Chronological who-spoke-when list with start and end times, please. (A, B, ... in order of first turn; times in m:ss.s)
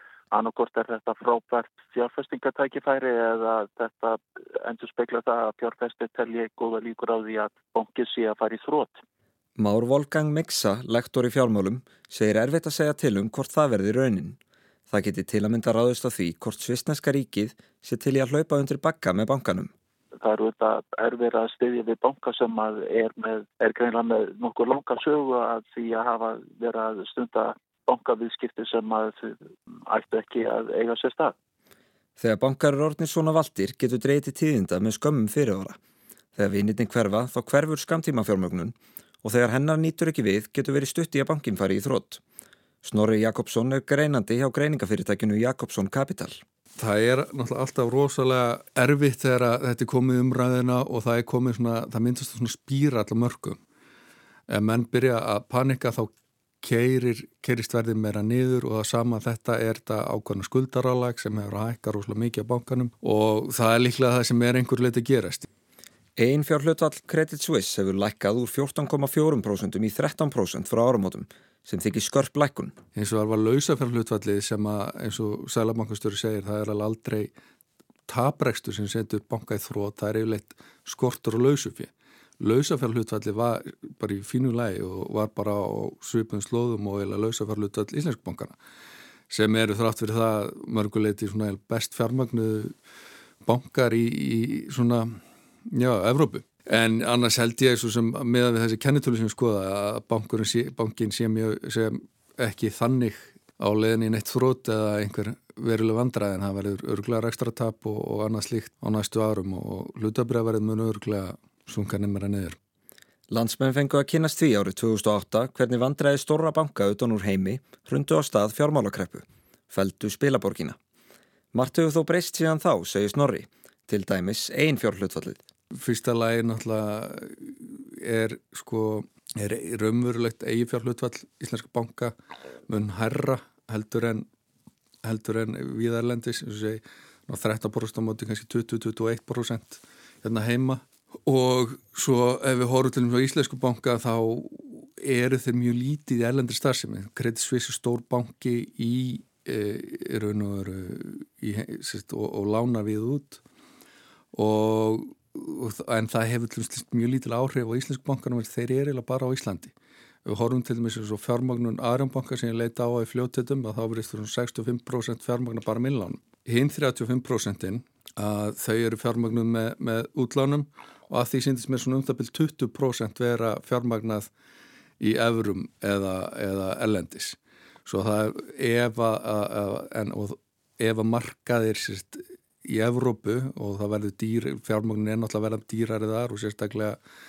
0:00.3-0:09.0 A
0:09.6-0:14.4 B
0:14.9-0:19.7 B
0:20.2-0:31.3 A
0:32.2-0:35.8 B
0:36.4-0:42.2 B
0:42.8-0:46.4 B
0:46.8-0:53.6 C
0:54.5-0:56.1 C
0:56.6-1:05.4 C
1:06.2-1:12.8 B
1:13.0-1:17.3 C
1:18.1-1:28.6 C
1:29.3-1:32.8 C
1:33.4-1:52.6 C
1:53.3-2:00.8 B
2:01.5-2:05.4 B
2:05.8-2:12.2 C
2:12.7-2:14.3 C
2:15.0-2:33.4 C
2:34.3-2:39.7 C
2:40.2-2:54.3 C
2:55.0-3:07.0 C